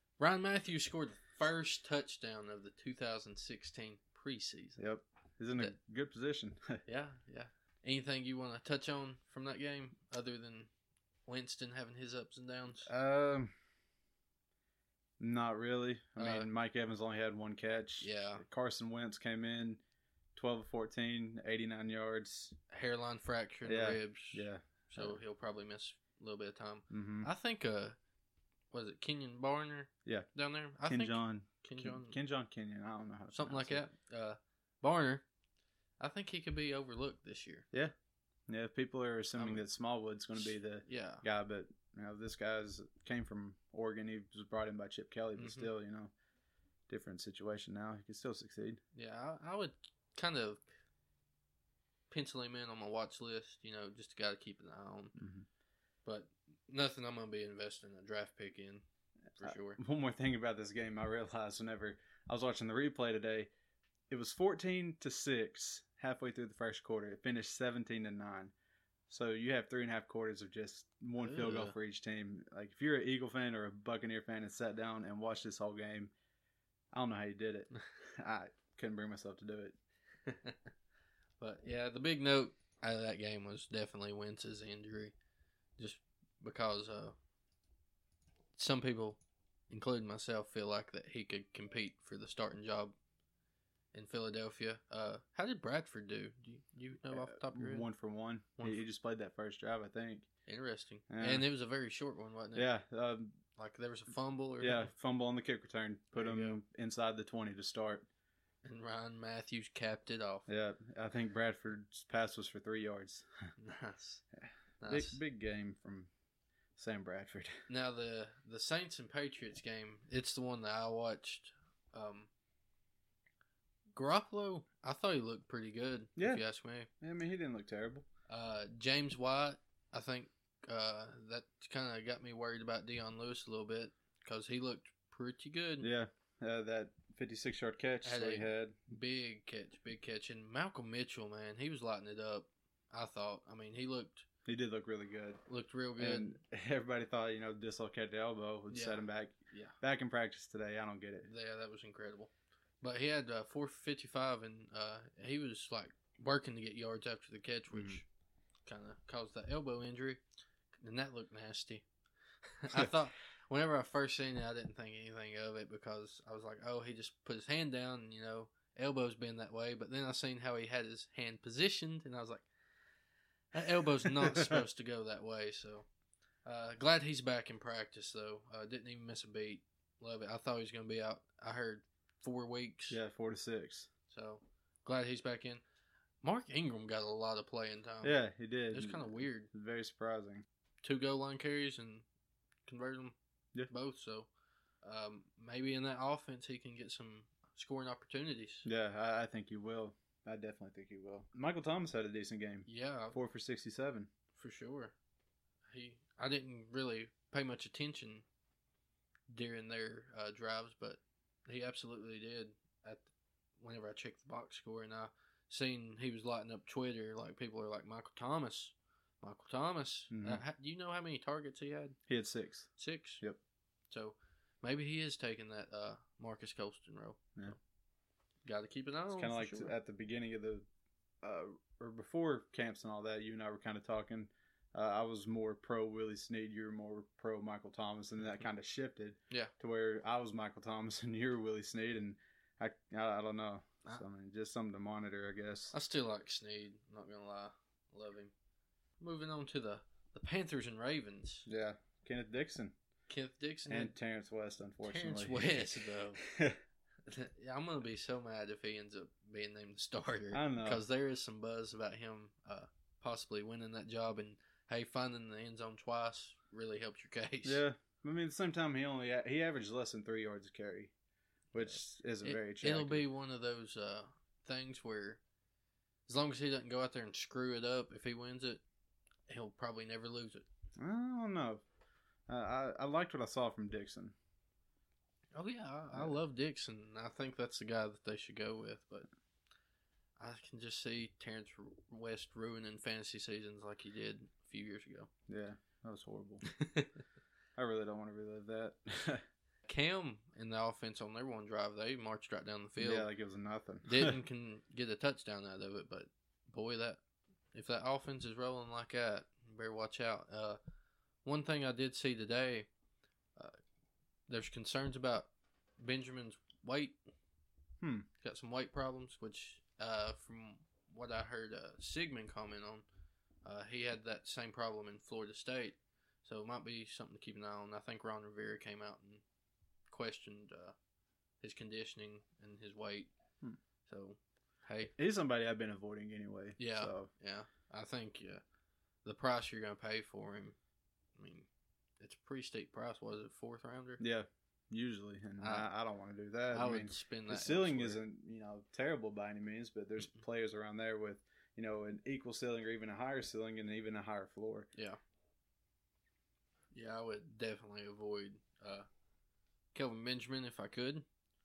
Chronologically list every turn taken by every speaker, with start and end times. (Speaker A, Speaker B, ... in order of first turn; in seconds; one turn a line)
Speaker A: 0.2-4.8
Speaker B: 4.8-6.8
Speaker A: 6.9-10.7
Speaker A: 11.3-12.9
Speaker B: 12.9-13.5
Speaker B: 15.2-19.8
Speaker A: 16.2-16.5
Speaker A: 18.0-18.4
Speaker B: 20.4-22.6
Speaker A: 22.7-28.0
Speaker B: 23.7-25.2
Speaker B: 26.9-27.3
Speaker A: 28.7-32.2
Speaker B: 30.9-33.8
Speaker A: 33.3-35.2
Speaker A: 36.0-37.7
Speaker B: 38.5-46.1
Speaker A: 39.4-39.6
Speaker A: 40.9-41.2
Speaker A: 45.4-45.7
Speaker B: 46.9-48.8
Speaker A: 49.0-50.6
Speaker A: 52.1-55.2
Speaker B: 55.2-55.5
Speaker A: 56.0-58.8
Speaker A: 59.4-59.8
Speaker B: 59.4-63.5
Speaker B: 64.1-68.5
Speaker B: 69.1-76.1
Speaker A: 71.2-71.8
Speaker B: 76.9-79.8
Speaker A: 80.3-80.7
Speaker A: 81.4-85.1
Speaker A: 85.8-87.2
Speaker A: 88.6-93.0
Speaker A: 93.9-97.9
Speaker B: 97.1-100.3
Speaker A: 98.6-98.8
Speaker A: 100.5-102.7
Speaker B: 101.1-101.5
Speaker B: 102.5-103.4
Speaker A: 103.6-104.9
Speaker B: 104.6-108.1
Speaker A: 106.1-106.6
Speaker A: 108.6-110.5
Speaker B: 110.5-113.3
Speaker A: 113.6-114.2
Speaker B: 114.4-116.1
Speaker A: 114.8-115.2
Speaker B: 116.8-117.6
Speaker A: 117.7-122.3
Speaker A: 124.0-126.9
Speaker B: 126.2-126.4
Speaker B: 127.0-128.1
Speaker A: 128.3-135.9
Speaker B: 135.8-138.9
Speaker A: 138.1-144.3
Speaker B: 144.5-145.4
Speaker A: 145.5-146.4
Speaker B: 146.0-151.3
Speaker A: 148.7-149.8
Speaker A: 151.2-158.1
Speaker B: 157.7-158.0
Speaker A: 158.7-160.2
Speaker A: 160.8-161.8
Speaker A: 162.5-172.5
Speaker A: 173.5-175.9
Speaker B: 174.2-174.6
Speaker A: 176.5-183.0
Speaker B: 182.9-183.9
Speaker A: 184.1-185.6
Speaker A: 186.2-188.2
Speaker B: 188.0-190.4
Speaker A: 188.7-189.5
Speaker A: 190.8-192.1
Speaker A: 192.7-193.2
Speaker A: 193.7-194.3
Speaker A: 194.8-198.7
Speaker B: 198.7-204.1
Speaker A: 202.7-203.2
Speaker A: 204.4-204.9
Speaker A: 205.7-208.2
Speaker A: 209.3-213.1
Speaker A: 213.6-222.0
Speaker B: 220.1-220.4
Speaker B: 222.1-222.7
Speaker A: 222.8-223.2
Speaker A: 223.9-227.6
Speaker A: 228.4-229.8
Speaker B: 229.1-230.7
Speaker B: 231.2-245.7
Speaker A: 245.7-248.3
Speaker A: 249.0-251.5
Speaker B: 251.5-252.8
Speaker A: 253.1-253.9
Speaker B: 253.7-256.6
Speaker A: 254.8-256.2
Speaker A: 257.1-267.6
Speaker B: 260.3-260.8
Speaker B: 267.4-270.9
Speaker B: 271.5-273.0
Speaker A: 272.2-275.2
Speaker A: 276.1-278.6
Speaker A: 279.3-280.5
Speaker B: 280.8-281.6
Speaker B: 282.3-284.1
Speaker A: 285.4-289.1
Speaker A: 290.2-295.1
Speaker B: 295.3-296.4
Speaker A: 296.4-296.9
Speaker B: 297.6-299.2
Speaker A: 299.7-303.1
Speaker B: 302.8-304.1
Speaker A: 303.9-307.0
Speaker A: 307.5-310.6
Speaker A: 311.2-312.7
Speaker A: 314.3-317.0
Speaker B: 317.8-318.1
Speaker A: 318.2-322.9
Speaker A: 323.4-329.2
Speaker A: 329.9-330.8
Speaker A: 331.4-333.1
Speaker A: 333.9-334.9
Speaker B: 335.0-337.1
Speaker A: 336.6-338.4
Speaker A: 339.0-340.6
Speaker A: 341.2-341.5
Speaker A: 342.0-344.0
Speaker B: 344.0-354.7
Speaker A: 345.4-345.7
Speaker A: 346.5-348.0
Speaker A: 356.7-358.9
Speaker A: 359.7-361.1